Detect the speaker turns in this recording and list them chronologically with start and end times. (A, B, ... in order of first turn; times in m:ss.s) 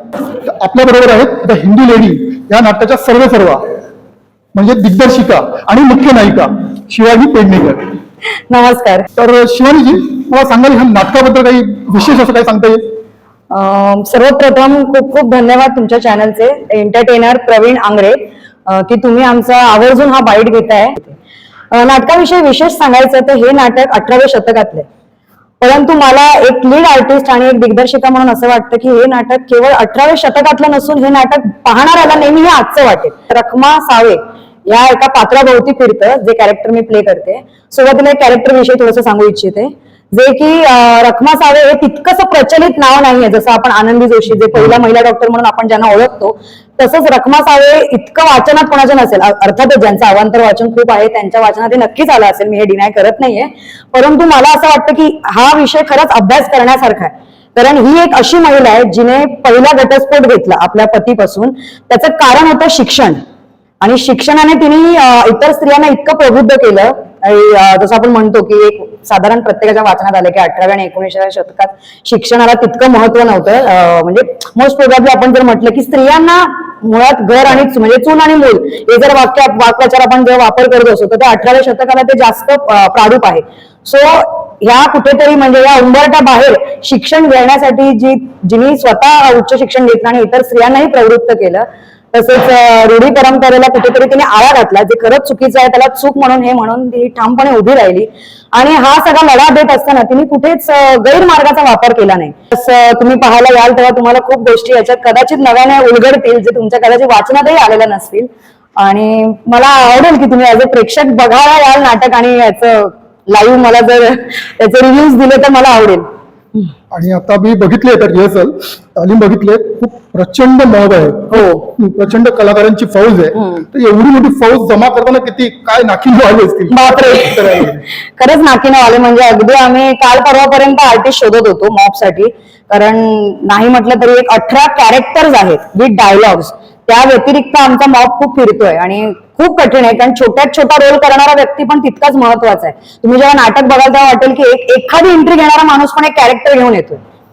0:00.4-0:03.6 A
0:04.6-0:07.8 A
0:08.5-0:09.1 B
0:09.2-0:12.8 A
0:13.5-0:21.2 B
0:21.7-0:24.9 B
0:25.6-1:03.2 B
1:03.8-1:56.1 B
1:56.9-2:07.8 A
2:01.3-2:01.7 B
2:03.4-2:03.6 B
2:06.7-2:27.0 B